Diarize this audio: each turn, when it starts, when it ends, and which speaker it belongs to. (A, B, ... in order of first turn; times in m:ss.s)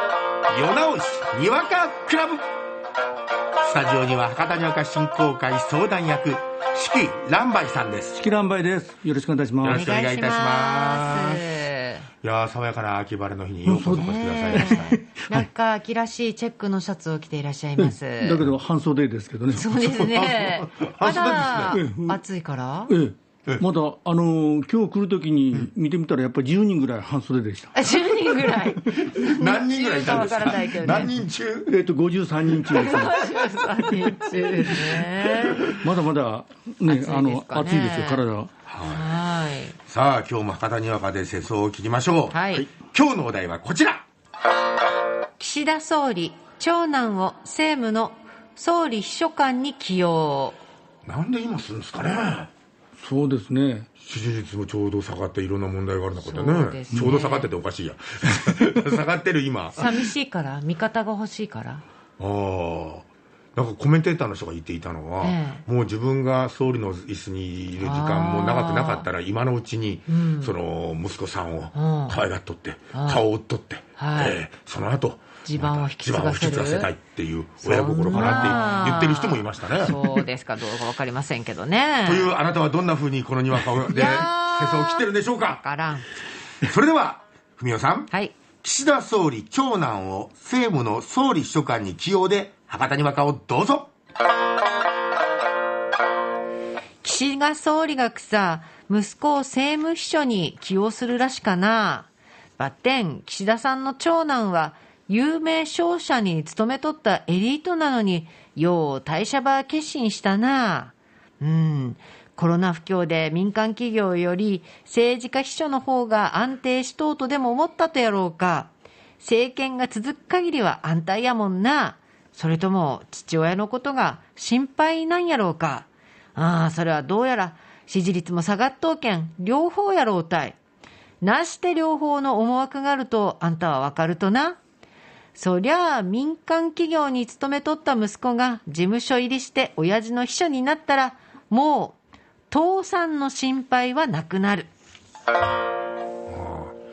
0:00.5-0:02.4 A
0:03.6-0:08.2 A
0:08.1-0:09.8 B
0:09.6-0:11.6 A
0:09.7-0:12.1 C
0:12.2-0:14.9 A
0:13.6-0:15.4 B
0:13.9-0:18.4 C
0:17.8-0:19.7 B
0:19.5-0:23.0 C
0:19.7-0:21.8 A
0:21.7-0:22.2 B
0:22.9-0:27.7 B
0:27.7-0:31.2 C
0:28.8-0:31.7 A
0:31.7-0:33.1 B
0:32.7-0:35.9 C
0:35.6-0:38.5 B
0:36.8-0:38.2 C
0:38.7-0:39.1 A
0:38.9-0:39.8 C
0:39.8-0:44.0 A
0:42.3-0:42.7 C
0:45.4-0:50.6 C
0:51.0-0:52.5 A
0:53.0-0:53.9 B
0:54.0-1:00.1 A
0:56.2-0:57.5 C
0:59.8-1:01.8 C
1:02.2-1:20.0 A
1:05.2-1:05.6 C
1:07.8-1:09.1 C
1:10.1-1:10.5 C
1:11.7-1:12.2 C
1:12.9-1:13.2 C
1:14.0-1:14.4 C
1:15.4-1:16.9 C
1:17.6-1:22.3 C
1:18.1-1:18.5 B
1:22.0-1:25.6 A
1:23.9-1:26.0 C
1:26.6-1:33.9 A
1:37.0-2:10.6 C
2:11.2-2:14.6 C
2:15.3-2:22.0 C
2:22.5-2:24.7 C
2:26.3-2:26.8 A